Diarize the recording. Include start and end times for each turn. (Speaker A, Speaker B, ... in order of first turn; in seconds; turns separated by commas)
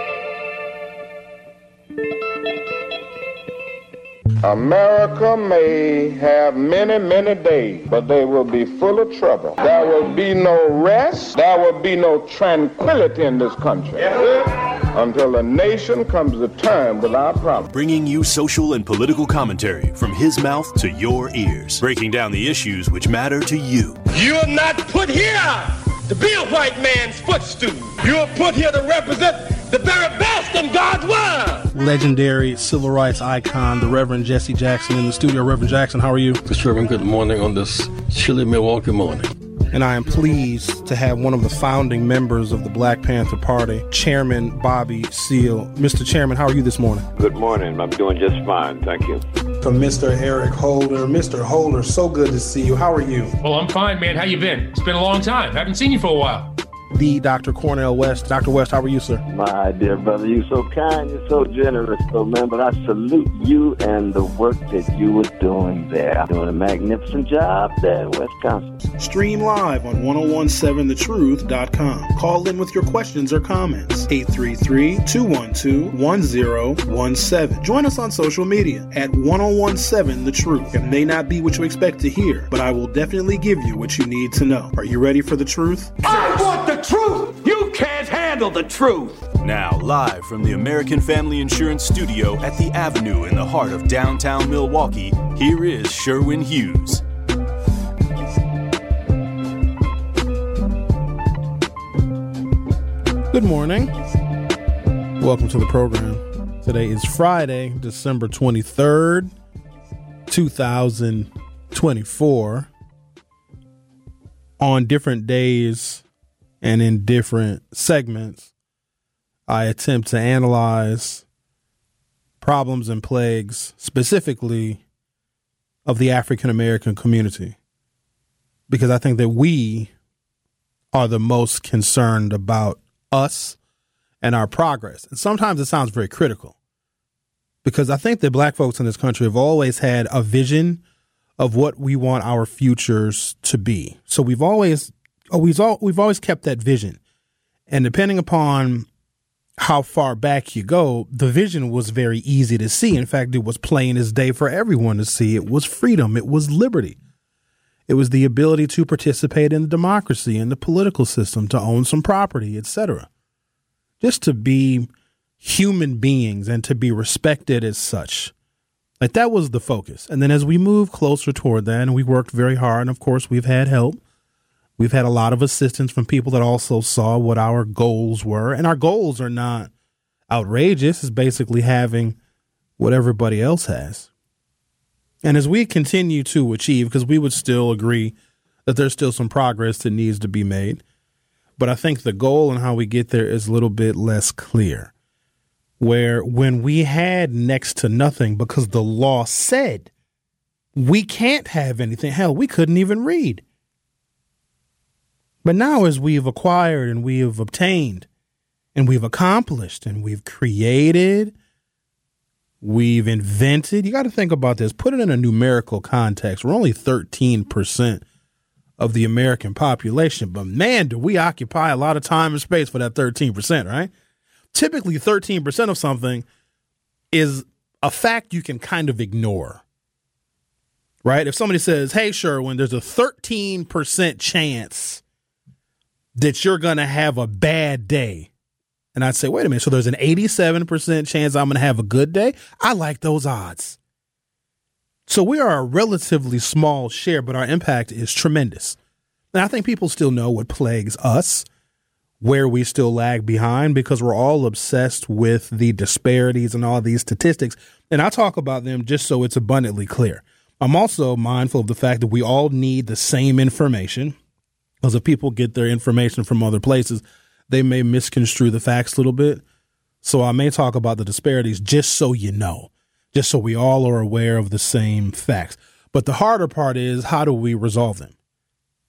Speaker A: 4.4-17.7, Speaker B: 17.7-24.0, Speaker C: 24.1-31.7, Speaker D: 31.7-36.4, Speaker E: 36.5-39.3, Speaker D: 39.7-47.1, Speaker F: 47.1-49.2, Speaker D: 49.6-53.4, Speaker G: 53.4-56.5, Speaker D: 56.9-59.2, Speaker F: 59.3-68.8, Speaker D: 69.0-86.0, Speaker C: 86.0-89.1, Speaker G: 87.8-88.9, Speaker B: 89.4-97.0, Speaker D: 103.3-103.9, Speaker D: 105.2-109.3, Speaker D: 110.3-112.7, Speaker D: 114.6-116.0, Speaker D: 116.6-118.5, Speaker D: 119.5-121.2, Speaker D: 122.4-124.8, Speaker D: 125.8-127.5, Speaker D: 128.7-129.9, Speaker D: 130.9-133.6, Speaker D: 134.2-136.6, Speaker D: 137.6-140.8, Speaker D: 141.4-147.0, Speaker D: 147.7-148.9, Speaker D: 149.6-157.0, Speaker D: 157.9-163.1, Speaker D: 164.0-164.9, Speaker D: 165.4-168.3, Speaker D: 169.0-174.0, Speaker D: 174.8-179.7, Speaker D: 180.3-182.2, Speaker D: 182.8-184.1, Speaker D: 185.2-188.1, Speaker D: 188.7-190.8, Speaker D: 191.6-194.9, Speaker D: 195.8-199.9, Speaker D: 200.7-203.4, Speaker D: 205.4-208.1, Speaker D: 208.7-211.3, Speaker D: 212.6-218.0, Speaker D: 218.8-223.9, Speaker D: 224.5-226.2, Speaker D: 227.1-229.6, Speaker D: 231.0-235.0, Speaker D: 236.1-238.3, Speaker D: 238.9-243.8, Speaker D: 245.1-248.8, Speaker D: 249.3-251.4, Speaker D: 252.2-264.1, Speaker D: 264.8-269.4, Speaker D: 270.0-278.1